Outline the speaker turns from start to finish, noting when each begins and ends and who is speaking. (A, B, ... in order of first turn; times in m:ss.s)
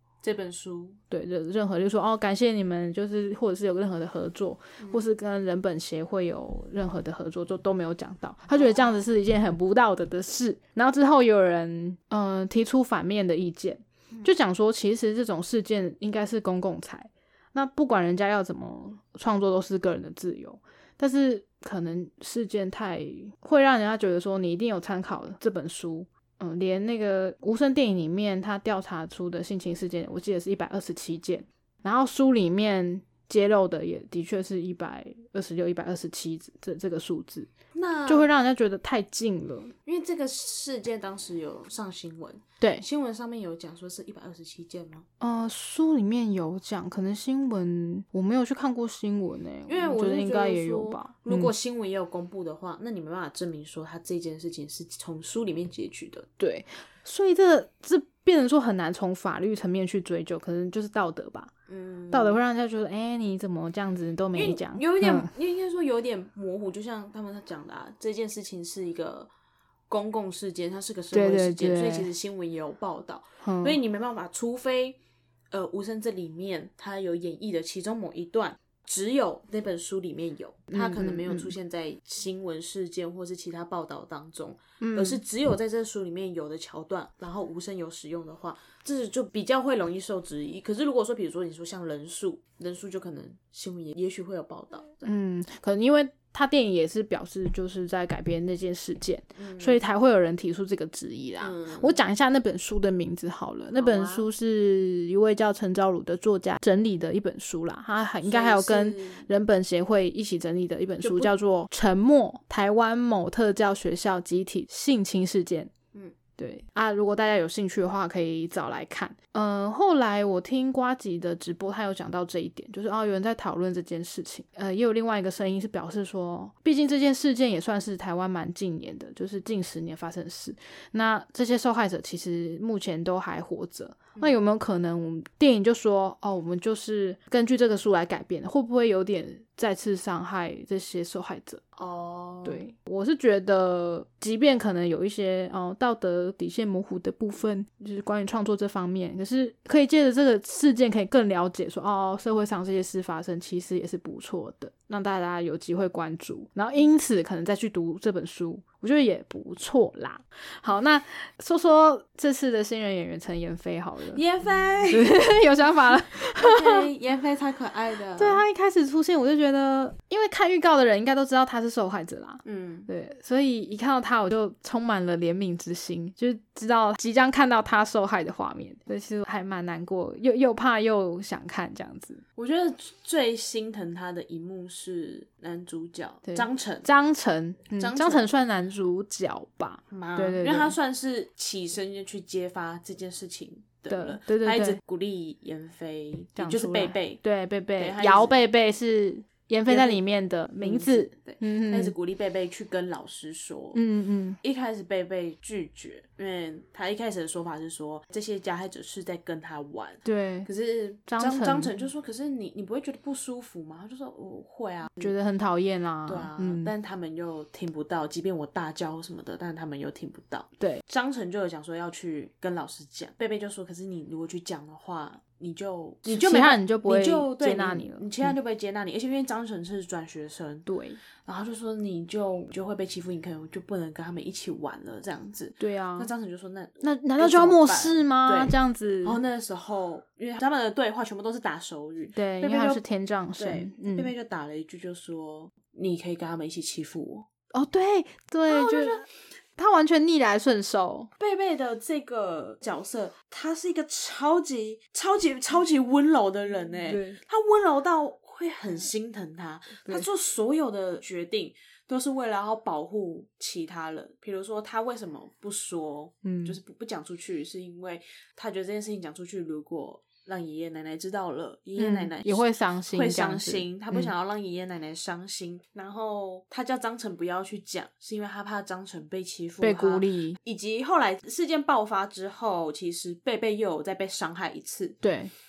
0:00.2-0:01.0 A
0:01.1-0:37.5 B
0:04.8-0:05.0 A
0:08.5-0:09.0 A
0:37.7-0:38.3 A
0:38.0-0:39.7 B
0:39.8-0:45.0 A
0:42.6-0:42.8 B
0:45.2-0:51.5 B
0:49.7-0:56.2 A
0:56.4-1:01.5 B
1:01.7-1:02.4 A
1:02.1-1:05.3 B
1:04.3-1:09.3 A
1:09.9-1:15.0 A
1:11.1-1:12.1 B
1:13.4-1:13.8 B
1:15.5-1:35.1 A
1:20.7-1:21.5 B
1:24.8-1:25.2 B
1:35.0-1:55.7 B
1:39.4-1:39.8 A
1:41.4-1:42.0 A
1:43.7-1:44.3 A
1:48.2-1:49.3 A
1:51.0-1:51.3 A
1:56.4-2:21.6 B
2:21.8-2:22.6 A
2:22.4-2:44.2 B
2:44.1-2:45.2 A
2:44.9-2:46.9 B
2:46.4-2:48.4 A
2:48.2-3:02.2 B
2:52.4-2:52.9 A
3:02.4-3:06.9 A
3:06.2-3:10.8 B
3:07.8-3:08.3 A
3:09.9-3:17.2 A
3:13.9-3:14.8 B
3:16.4-3:21.9 B
3:17.8-3:18.4 A
3:19.7-3:20.0 A
3:20.6-3:23.8 A
3:23.7-3:24.4 B
3:24.4-3:35.1 A
3:30.0-3:30.5 B
3:31.0-3:31.8 B
3:35.0-3:36.7 B
3:36.0-3:50.7 A
3:46.0-3:48.3 B
3:50.6-3:51.0 B
3:51.2-4:02.8 A
3:55.6-3:56.1 B
3:56.8-3:59.2 B
4:02.1-4:04.1 B
4:03.4-4:07.3 A
4:07.5-4:11.1 B
4:08.5-4:09.0 A
4:11.2-4:45.0 A
4:16.9-4:17.2 B
4:26.2-4:26.6 B
4:31.8-4:34.1 B
4:39.6-4:40.4 B
4:45.0-4:45.3 B